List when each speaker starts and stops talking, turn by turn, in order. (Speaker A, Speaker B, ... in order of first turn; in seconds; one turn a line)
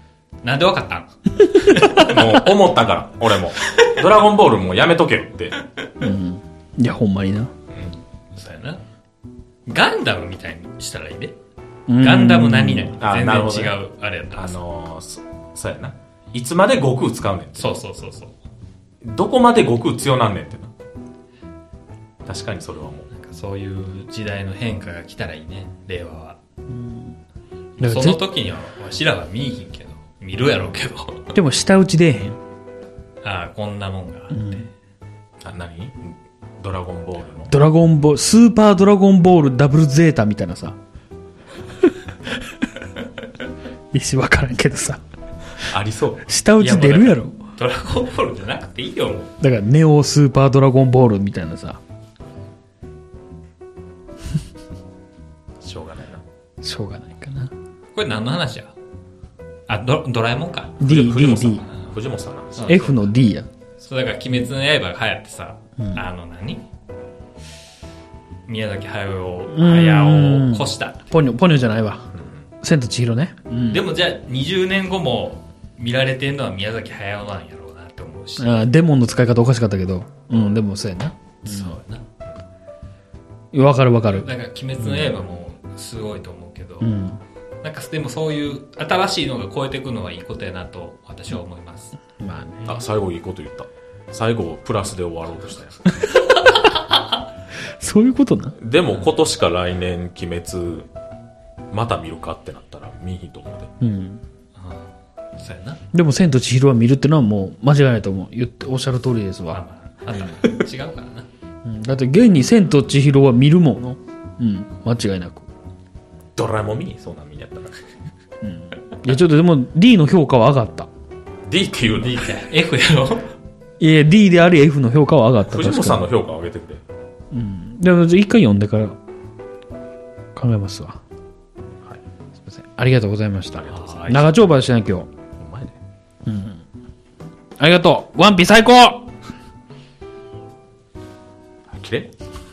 Speaker A: 0.4-2.4
Speaker B: 1.4-2.0
Speaker C: 2.0-5.5
Speaker A: 3.7-4.0
Speaker B: 6.0-7.5
Speaker A: 7.9-8.8
Speaker A: 9.7-11.3
Speaker B: 11.9-12.9
Speaker A: 12.0-14.6
Speaker C: 13.0-13.8
Speaker C: 14.3-17.7
Speaker A: 17.6-18.3
Speaker C: 19.0-20.7
Speaker C: 22.2-23.1
Speaker A: 23.1-26.4
Speaker B: 26.7-27.1
Speaker A: 27.8-31.3
Speaker B: 27.8-28.2
Speaker B: 31.3-32.4
Speaker A: 33.2-34.6
Speaker B: 34.3-34.7
Speaker C: 35.4-37.5
Speaker B: 37.5-40.8
Speaker B: 43.9-45.0
Speaker C: 45.6-46.3
Speaker B: 46.3-47.3
Speaker A: 46.6-49.3
Speaker B: 49.4-51.8
Speaker C: 55.6-56.2
Speaker B: 56.6-57.5
Speaker A: 57.9-58.7
Speaker A: 59.7-60.9
Speaker B: 60.8-61.6
Speaker C: 60.8-62.8
Speaker A: 62.6-63.0
Speaker B: 62.6-63.5
Speaker A: 63.8-66.6
Speaker A: 68.5-71.1
Speaker B: 69.5-72.1
Speaker C: 72.1-72.4
Speaker B: 72.6-73.8
Speaker A: 73.7-78.5
Speaker B: 78.4-81.8
Speaker A: 81.4-82.0
Speaker B: 83.5-84.3
Speaker A: 84.0-86.9
Speaker B: 84.8-85.1
Speaker B: 86.8-87.2
Speaker A: 87.6-92.0
Speaker B: 92.2-92.8
Speaker C: 92.6-95.8
Speaker B: 97.8-98.5
Speaker C: 98.6-100.9
Speaker C: 101.7-103.7
Speaker B: 103.8-104.2
Speaker A: 104.6-105.8
Speaker B: 105.9-109.6
Speaker A: 109.5-111.3
Speaker B: 111.6-115.5
Speaker C: 116.3-117.8
Speaker B: 118.4-120.9
Speaker C: 121.5-122.3
Speaker A: 122.0-123.3
Speaker B: 123.8-126.1
Speaker C: 125.5-126.8
Speaker B: 127.3-129.0
Speaker B: 130.3-131.0
Speaker B: 132.4-135.1
Speaker C: 133.5-134.3
Speaker A: 133.8-134.2
Speaker C: 135.3-135.8
Speaker B: 136.2-136.6
Speaker B: 137.6-139.1
Speaker C: 141.7-142.1